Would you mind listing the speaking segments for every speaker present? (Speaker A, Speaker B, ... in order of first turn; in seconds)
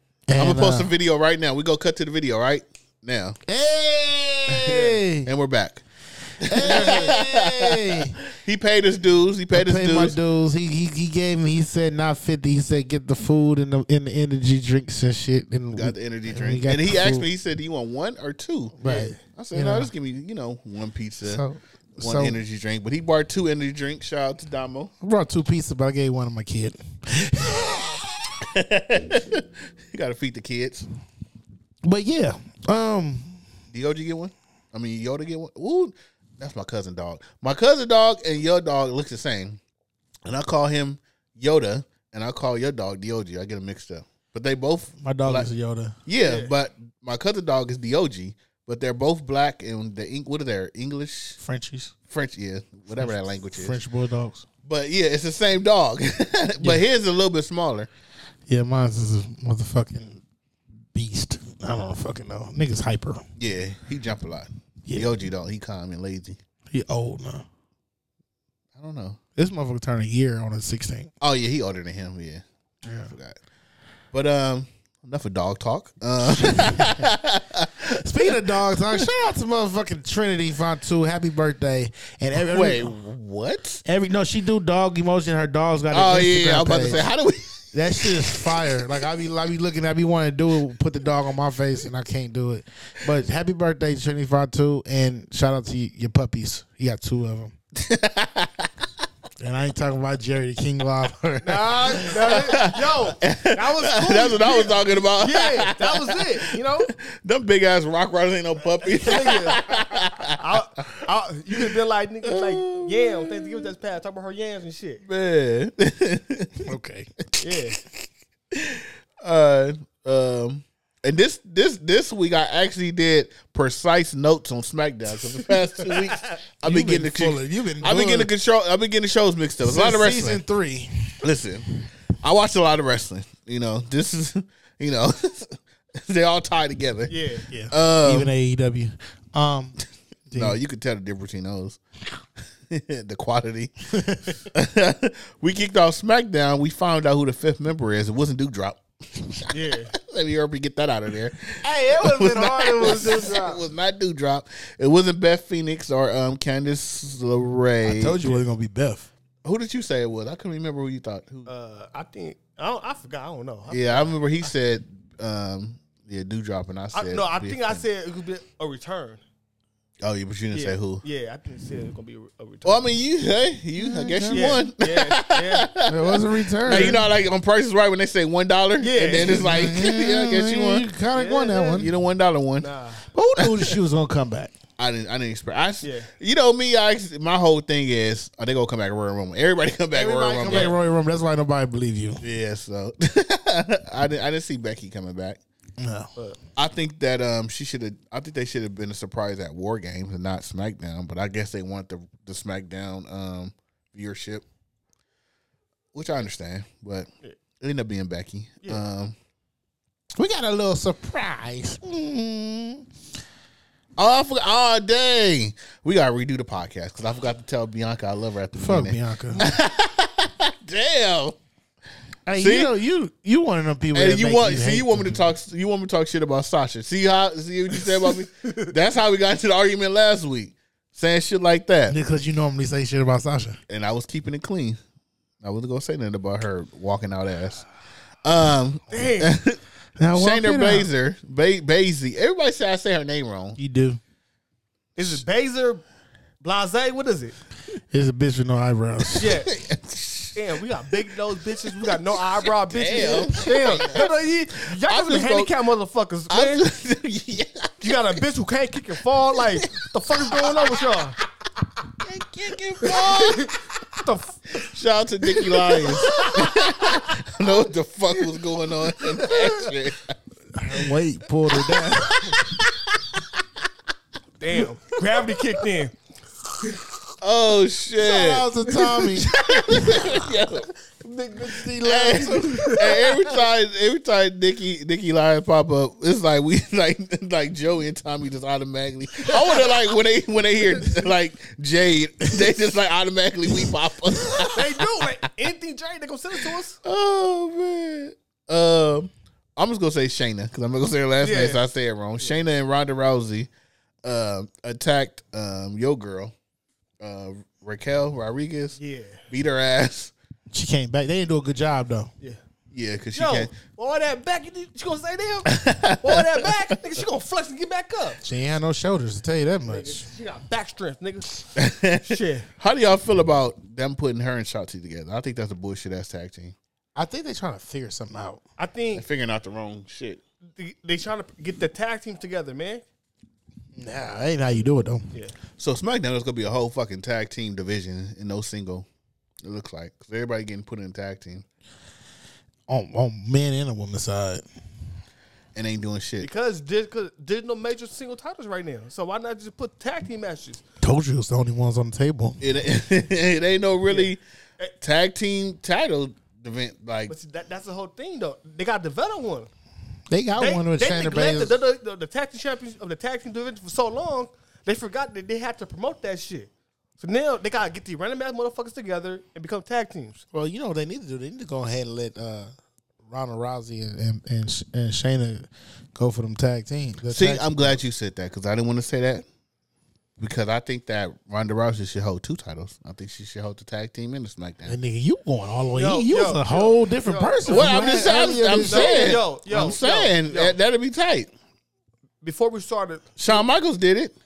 Speaker A: 0.3-0.9, 3.5-5.3, 6.4-8.2, 9.5-17.3, 18.8-19.9, 21.2-22.4, 25.0-28.1, 31.8-33.4, 45.0-46.0, 51.4-51.9, 53.0-54.5, 56.6-56.9, 58.5-60.2, 60.9-63.2, 64.9-65.2, 66.7-67.5, 69.4-71.1, 72.9-73.1, 76.2-77.0, 78.0-82.9, 83.8-87.0, 87.7-97.5, 99.4-101.9, 116.7-117.1, 126.6-128.3, 129.6-131.2, 137.5-139.8, 140.3-140.6, 144.0-144.4, 151.6-153.6, 157.8-159.1, 173.8-174.6, 175.9-177.1, 179.3-181.9, 183.1-184.5, 189.9-192.2, 195.8-196.1, 210.2-212.8, 218.6-219.5, 222.3-225.2, 231.9-233.6, 240.0-240.9, 243.6-244.0, 247.9-249.3, 253.3-253.8, 270.6-272.3, 278.0-279.9, 281.0-283.0, 310.5-312.1, 318.2-320.1, 326.9-328.4, 333.8-335.1, 342.7-344.4, 350.8-352.4, 360.1-361.6, 370.3-372.5, 373.1-377.8, 384.6-389.2
Speaker B: 0.4-3.4, 4.5-5.8, 6.4-10.2, 15.7-21.4, 22.0-24.9, 28.5-30.9, 33.7-39.6, 40.3-45.5, 46.1-51.4, 52.1-53.8, 54.6-57.9, 63.4-66.4, 68.8-69.2, 71.2-72.4, 73.1-73.4, 74.1-78.3, 82.4-83.8, 85.9-88.5, 97.8-98.7, 102.0-110.4, 112.2-113.7, 115.0-116.7, 118.5-130.4, 131.2-137.1, 137.7-138.3, 140.3-141.8, 142.7-144.0, 144.5-158.4, 159.4-161.5, 163.7-167.8, 170.0-171.0, 172.7-180.9, 181.8-182.7, 184.8-190.8, 192.2-195.4, 196.6-204.4, 205.9-207.1, 207.6-209.2, 214.0-221.4, 222.4-222.7, 223.9-232.0, 233.7-234.8, 235.4-237.7, 238.2-239.6, 240.1-243.6, 249.2-250.4, 251.7-252.0, 252.7-254.1, 254.6-255.5, 256.3-258.2, 259.6-259.8, 262.0-263.6, 264.6-270.1, 271.6-273.2, 277.2-278.5, 279.3-280.7, 281.8-295.3, 296.9-303.5, 304.0-306.3, 307.0-308.8, 309.3-310.1, 312.7-313.5, 315.5-316.5, 321.6-326.6, 328.9-330.2, 335.6-338.9, 339.4-341.4, 345.6-346.3, 352.4-354.2, 354.8-357.1, 377.1-379.2, 380.2-384.8, 387.5-391.3, 393.2-394.1
Speaker C: 4.7-5.0, 18.8-19.2, 46.2-46.5, 101.4-106.9, 108.9-109.6, 110.4-115.0, 117.4-117.8, 125.9-126.3, 137.1-137.5, 149.5-149.9, 161.5-164.5, 166.9-169.2, 170.5-172.8, 174.3-175.7, 176.7-177.0, 178.8-179.5, 181.1-181.9, 182.6-183.1, 185.8-186.1, 190.5-190.8, 227.8-228.7, 238.9-239.3, 245.0-245.8, 246.4-247.3, 249.2-249.5, 250.3-256.7, 257.8-261.2, 262.8-264.7, 265.4-266.6, 274.4-276.0, 289.3-289.6, 294.5-296.8, 301.2-301.6, 308.8-309.2, 313.1-315.5, 316.0-318.2, 319.6-321.5, 322.1-322.5, 328.6-329.0, 330.6-332.8, 346.2-350.6, 353.9-354.7, 357.1-359.5, 360.4-370.2, 385.8-387.8, 388.6-390.6, 392.2-393.4